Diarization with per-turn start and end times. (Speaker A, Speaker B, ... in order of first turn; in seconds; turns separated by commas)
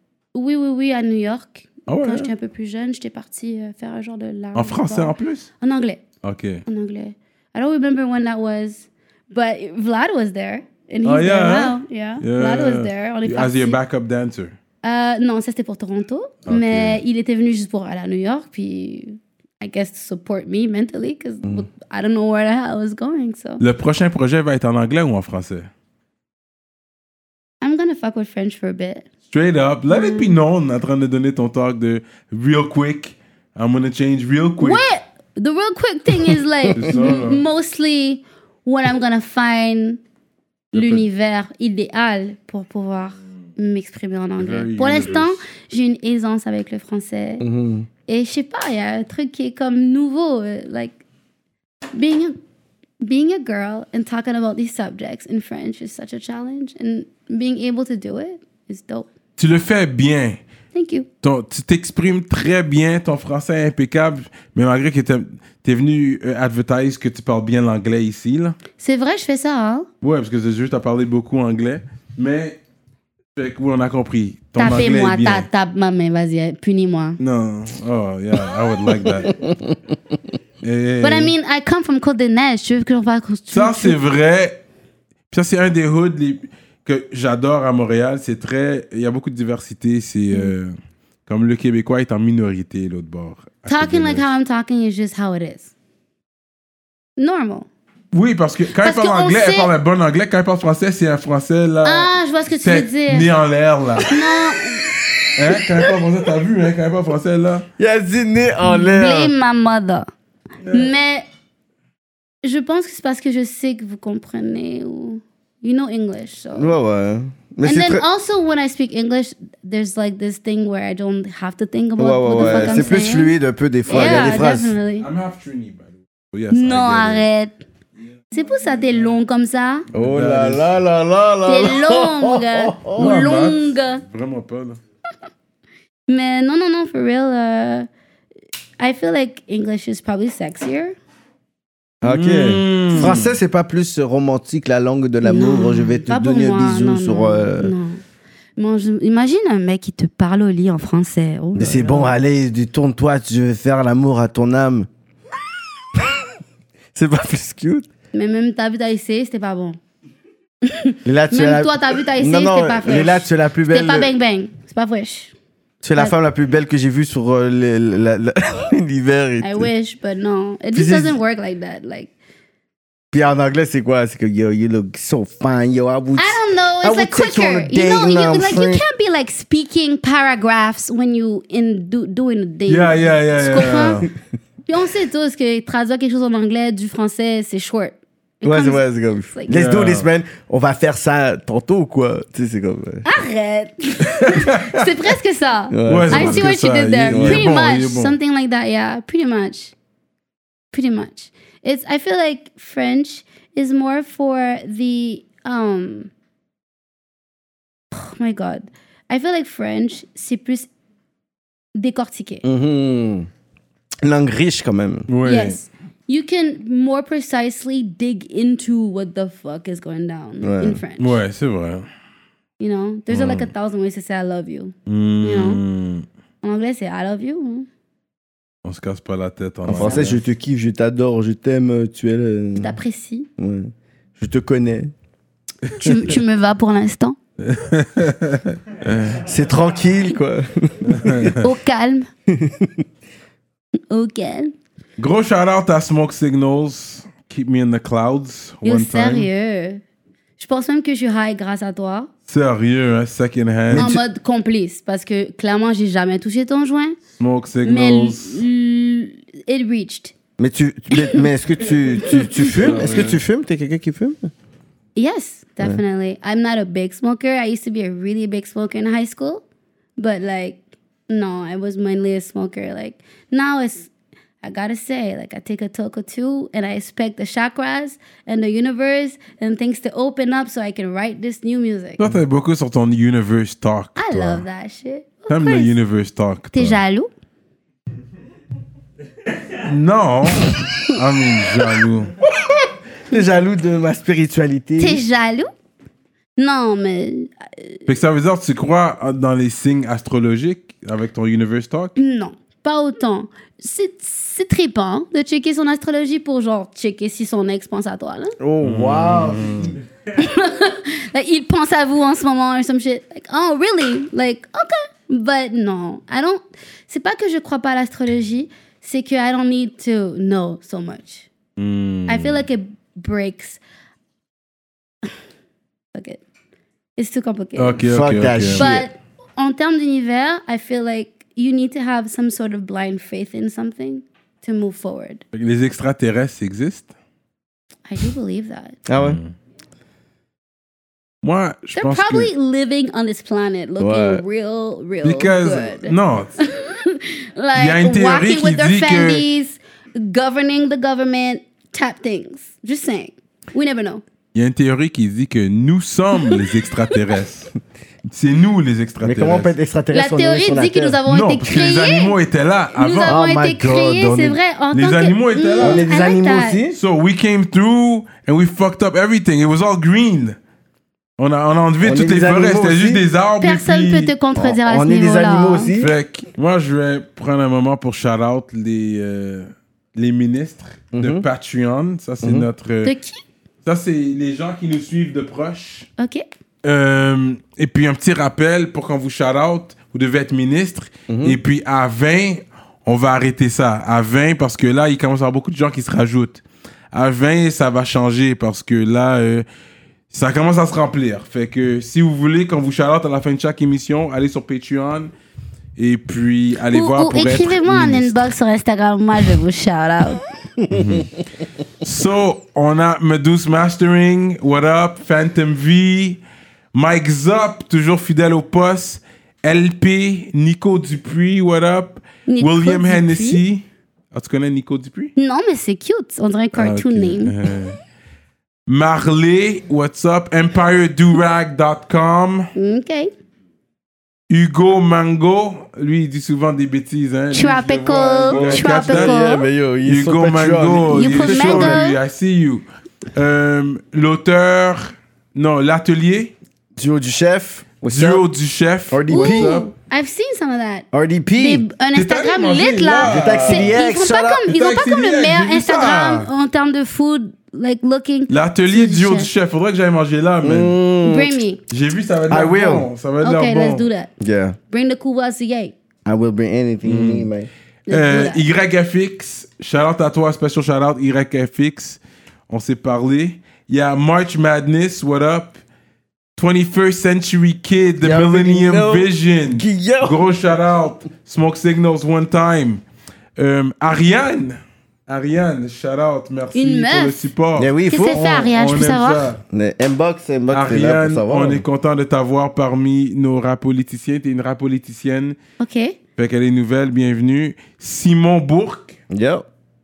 Speaker A: 0.3-6.0, Speaker B: 1.9-2.3, Speaker B: 4.5-5.5, Speaker B: 6.2-6.6, Speaker A: 6.7-13.8, Speaker B: 11.0-14.5, Speaker A: 14.8-23.6, Speaker B: 16.4-17.0, Speaker B: 23.6-25.7, Speaker A: 27.6-29.1, Speaker B: 29.3-34.8, Speaker A: 29.9-30.4, Speaker A: 34.6-40.0, Speaker B: 36.7-37.4, Speaker A: 40.7-47.4, Speaker B: 40.7-41.0, Speaker B: 44.4-45.4, Speaker C: 47.4-47.9, Speaker A: 48.1-51.0, Speaker A: 51.9-52.4, Speaker A: 53.0-59.1, Speaker B: 59.4-60.4, Speaker A: 60.7-61.1, Speaker B: 61.2-68.5, Speaker A: 68.8-69.9, Speaker B: 70.0-72.6, Speaker B: 73.3-75.5, Speaker A: 74.5-77.2, Speaker B: 77.2-79.5, Speaker C: 79.0-79.7, Speaker B: 80.6-81.3, Speaker A: 81.0-84.0, Speaker B: 83.5-84.6, Speaker B: 85.3-90.7, Speaker B: 91.3-94.3, Speaker A: 93.7-95.7, Speaker A: 97.2-97.7, Speaker B: 98.1-104.2, Speaker A: 98.8-99.7, Speaker A: 101.8-103.3, Speaker A: 104.0-105.0, Speaker C: 105.2-105.9, Speaker B: 105.3-107.7, Speaker C: 107.8-109.3, Speaker A: 108.6-110.1, Speaker A: 110.7-111.2, Speaker A: 112.4-116.7, Speaker C: 116.5-118.0, Speaker A: 117.6-123.3, Speaker C: 122.0-124.7, Speaker B: 122.4-123.0, Speaker B: 123.8-124.4, Speaker A: 123.9-125.1, Speaker B: 125.0-127.2, Speaker A: 126.5-127.5, Speaker A: 128.3-129.8, Speaker B: 129.9-130.7, Speaker C: 129.9-133.1, Speaker A: 131.4-134.0, Speaker B: 132.9-134.8, Speaker A: 136.1-137.9, Speaker A: 138.8-140.9, Speaker C: 142.0-147.7, Speaker B: 142.0-143.3, Speaker A: 142.9-143.2, Speaker A: 145.2-148.0, Speaker A: 148.6-152.1, Speaker C: 151.5-154.9, Speaker C: 156.9-157.9, Speaker A: 158.1-159.8, Speaker A: 160.6-165.3, Speaker C: 161.0-164.1, Speaker C: 165.8-169.7, Speaker A: 169.4-172.1, Speaker C: 170.7-171.1, Speaker C: 173.1-178.8, Speaker A: 176.2-184.1, Speaker B: 182.7-184.1, Speaker A: 184.7-189.5, Speaker C: 188.4-193.0, Speaker B: 189.5-190.1, Speaker A: 193.0-199.7, Speaker B: 194.2-194.9, Speaker C: 195.7-196.5, Speaker B: 195.8-198.1, Speaker C: 197.0-197.5, Speaker A: 200.7-206.1, Speaker A: 207.9-210.7, Speaker A: 211.7-212.4, Speaker C: 212.4-213.3, Speaker C: 214.0-215.1, Speaker B: 215.1-215.6, Speaker A: 215.2-221.2, Speaker C: 220.4-220.8, Speaker B: 221.0-221.8, Speaker A: 222.6-225.6, Speaker C: 223.1-223.5, Speaker B: 224.9-226.0, Speaker A: 226.4-227.7, Speaker B: 228.6-230.2, Speaker C: 229.7-232.8, Speaker A: 229.8-230.2, Speaker A: 232.6-233.3, Speaker C: 233.4-234.9, Speaker B: 235.7-236.0, Speaker A: 235.8-237.2, Speaker B: 237.4-239.2, Speaker C: 239.2-241.3, Speaker B: 240.9-241.4, Speaker A: 241.4-242.1, Speaker C: 242.3-242.8, Speaker A: 243.9-244.5, Speaker B: 245.0-249.3, Speaker A: 248.6-249.8, Speaker A: 250.4-252.1, Speaker B: 252.3-254.0, Speaker C: 253.7-254.0, Speaker A: 253.7-257.0, Speaker B: 257.2-258.4, Speaker A: 257.6-260.1, Speaker C: 260.4-264.3, Speaker A: 260.9-261.2, Speaker A: 262.0-262.5, Speaker B: 262.4-263.2, Speaker A: 264.9-269.4, Speaker A: 270.0-282.1, Speaker B: 282.0-284.4, Speaker A: 284.0-285.7, Speaker B: 285.3-286.8, Speaker A: 286.5-287.1, Speaker B: 289.6-292.1, Speaker C: 292.3-295.0, Speaker A: 294.8-295.5, Speaker A: 296.4-297.8, Speaker B: 297.9-301.9, Speaker A: 301.9-308.3, Speaker C: 308.4-309.8, Speaker B: 308.6-309.7, Speaker A: 310.1-321.3, Speaker B: 321.6-322.4, Speaker A: 322.1-323.6, Speaker A: 325.9-326.2, Speaker A: 327.0-327.8, Speaker B: 327.6-328.7, Speaker C: 327.8-328.9, Speaker A: 328.5-335.2, Speaker B: 335.3-336.9, Speaker A: 337.9-338.8, Speaker C: 338.9-339.2, Speaker B: 339.0-339.3, Speaker B: 341.2-342.3, Speaker A: 341.7-354.0, Speaker C: 343.8-344.2, Speaker B: 345.0-346.4, Speaker B: 347.5-349.2, Speaker B: 354.3-357.5, Speaker A: 356.2-356.9, Speaker B: 358.1-359.5, Speaker C: 359.0-361.0, Speaker A: 359.9-362.1, Speaker B: 361.1-363.2, Speaker A: 362.8-366.6, Speaker C: 363.0-364.4, Speaker B: 364.7-365.8, Speaker C: 365.6-366.8, Speaker B: 366.7-370.4, Speaker B: 371.2-374.1, Speaker C: 371.8-373.0, Speaker A: 373.4-375.7, Speaker C: 374.4-375.9, Speaker B: 375.8-382.9, Speaker C: 380.9-381.2, Speaker C: 382.2-382.5, Speaker A: 382.8-383.2, Speaker B: 383.6-385.9, Speaker A: 386.0-386.2, Speaker B: 386.6-396.4, Speaker C: 391.1-391.4, Speaker B: 396.9-399.4, Speaker B: 400.1-405.1, Speaker B: 405.8-408.3, Speaker A: 406.7-410.2, Speaker B: 410.7-411.1, Speaker B: 411.8-416.2, Speaker B: 416.7-425.1, Speaker A: 422.3-423.4, Speaker A: 425.1-427.4, Speaker B: 426.5-427.8, Speaker B: 428.7-432.5, Speaker A: 432.5-433.1, Speaker B: 434.3-439.1, Speaker A: 437.3-439.4, Speaker C: 438.3-441.8, Speaker B: 439.8-446.3, Speaker A: 440.9-442.0, Speaker C: 446.8-448.2, Speaker B: 447.9-449.7, Speaker C: 448.9-449.6, Speaker A: 449.1-459.3, Speaker C: 450.9-451.6, Speaker B: 451.9-453.8, Speaker C: 453.0-454.5, Speaker B: 454.4-456.3, Speaker B: 458.3-460.7, Speaker C: 460.4-461.3, Speaker A: 461.0-461.6, Speaker B: 461.7-463.8, Speaker C: 462.3-462.9, Speaker A: 463.2-464.1, Speaker C: 464.2-464.6, Speaker A: 464.7-465.7, Speaker C: 466.0-467.5, Speaker B: 466.9-467.3, Speaker A: 467.9-468.4, Speaker B: 467.9-475.6, Speaker B: 476.4-482.8, Speaker C: 478.0-480.2, Speaker B: 483.4-489.4, Speaker A: 486.5-487.2, Speaker C: 487.6-488.2, Speaker A: 487.9-489.3, Speaker C: 489.5-491.6, Speaker B: 490.5-495.4, Speaker A: 495.6-496.0, Speaker B: 496.2-498.9, Speaker C: 499.1-499.4